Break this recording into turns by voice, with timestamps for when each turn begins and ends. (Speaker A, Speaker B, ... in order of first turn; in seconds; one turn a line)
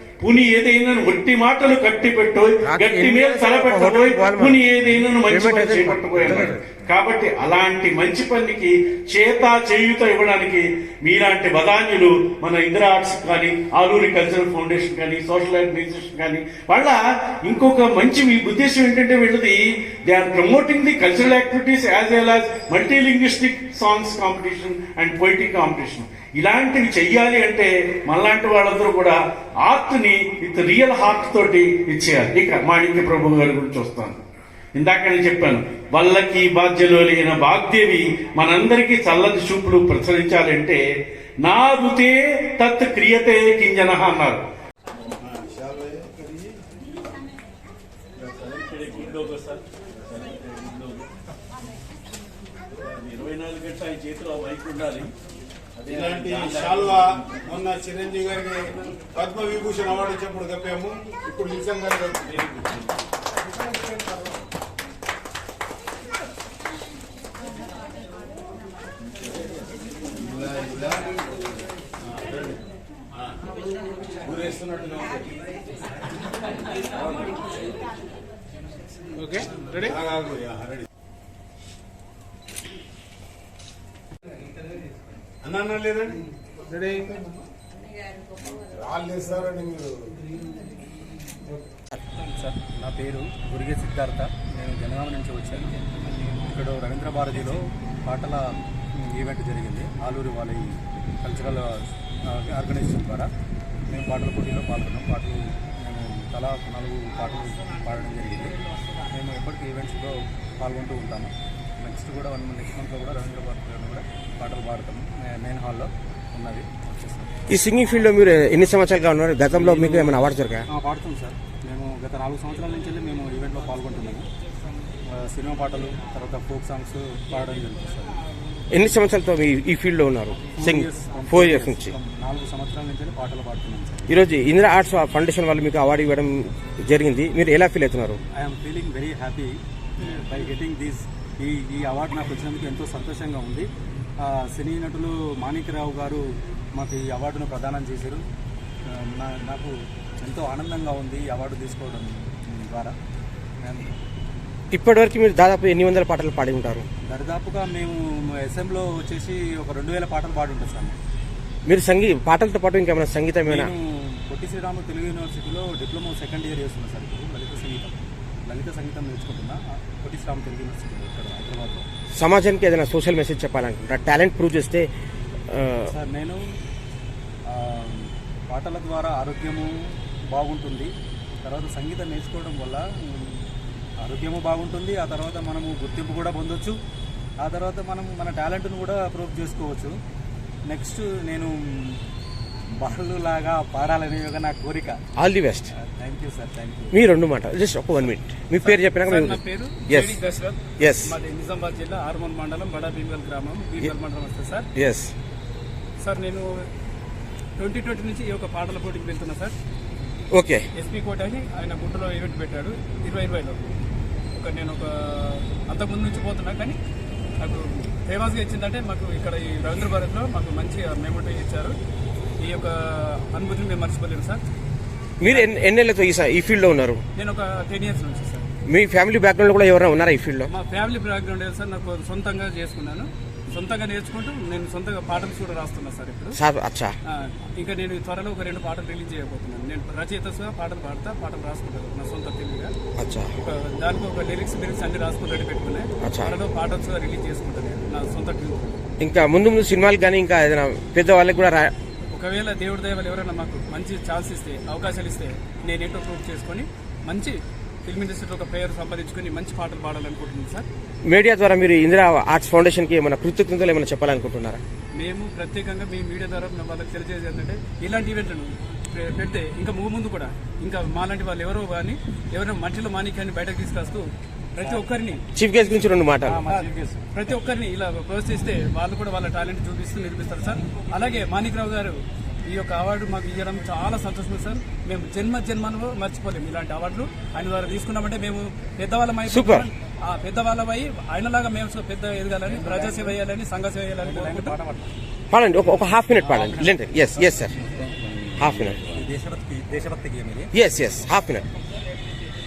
Speaker A: 0.2-34.2
Speaker B: 2.7-4.6
Speaker B: 5.3-6.8
Speaker A: 34.8-40.8
Speaker A: 41.4-44.4
Speaker C: 45.2-46.5
Speaker A: 48.2-51.1
Speaker A: 52.8-55.1
Speaker A: 55.8-57.6
Speaker C: 55.9-62.2
Speaker A: 62.2-62.9
Speaker C: 63.7-64.2
Speaker C: 70.2-71.1
Speaker C: 72.1-72.6
Speaker C: 74.2-75.3
Speaker D: 79.1-80.0
Speaker C: 79.8-80.8
Speaker C: 85.4-86.2
Speaker C: 86.8-87.2
Speaker C: 88.7-90.1
Speaker E: 92.5-95.8
Speaker E: 96.4-103.3
Speaker E: 103.9-108.6
Speaker E: 109.1-117.4
Speaker B: 117.5-120.7
Speaker E: 119.5-124.3
Speaker E: 125.1-128.2
Speaker B: 128.7-131.9
Speaker E: 130.5-134.2
Speaker B: 134.1-138.2
Speaker E: 138.3-143.7
Speaker E: 144.2-146.2
Speaker E: 146.8-148.2
Speaker E: 148.9-153.0
Speaker E: 153.6-154.0
Speaker B: 154.7-156.9
Speaker E: 157.0-161.0
Speaker B: 161.7-163.7
Speaker E: 163.4-171.9
Speaker B: 172.2-174.9
Speaker B: 175.5-175.9
Speaker E: 175.9-176.4
Speaker E: 177.5-180.9
Speaker E: 181.4-183.4
Speaker E: 184.0-186.8
Speaker E: 187.4-189.9
Speaker E: 190.7-192.0
Speaker E: 192.7-195.0
Speaker B: 195.2-195.7
Speaker E: 195.8-197.0
Speaker B: 196.9-200.2
Speaker D: 198.6-204.7
Speaker B: 200.8-201.1
Speaker B: 204.8-205.1
Speaker D: 206.0-206.5
Speaker D: 207.6-209.5
Speaker B: 210.3-210.7
Speaker D: 210.8-213.6
Speaker D: 214.3-216.8
Speaker D: 217.4-221.8
Speaker D: 222.4-224.4
Speaker B: 225.2-227.0
Speaker D: 225.2-225.5
Speaker D: 227.2-228.5
Speaker B: 228.7-230.5
Speaker D: 230.5-236.4
Speaker B: 236.4-236.9
Speaker D: 237.1-242.7
Speaker B: 243.0-243.3
Speaker D: 243.4-248.8
Speaker B: 246.0-246.3
Speaker B: 249.0-251.7
Speaker D: 252.1-260.7
Speaker B: 261.1-264.6
Speaker D: 265.0-275.2
Speaker B: 275.4-276.4
Speaker E: 276.2-277.1
Speaker D: 276.4-294.6
Speaker B: 289.3-289.7
Speaker E: 292.4-293.2
Speaker E: 294.0-294.9
Speaker B: 295.3-297.5
Speaker E: 296.2-297.9
Speaker B: 298.4-298.9
Speaker E: 298.8-300.5
Speaker B: 300.6-301.4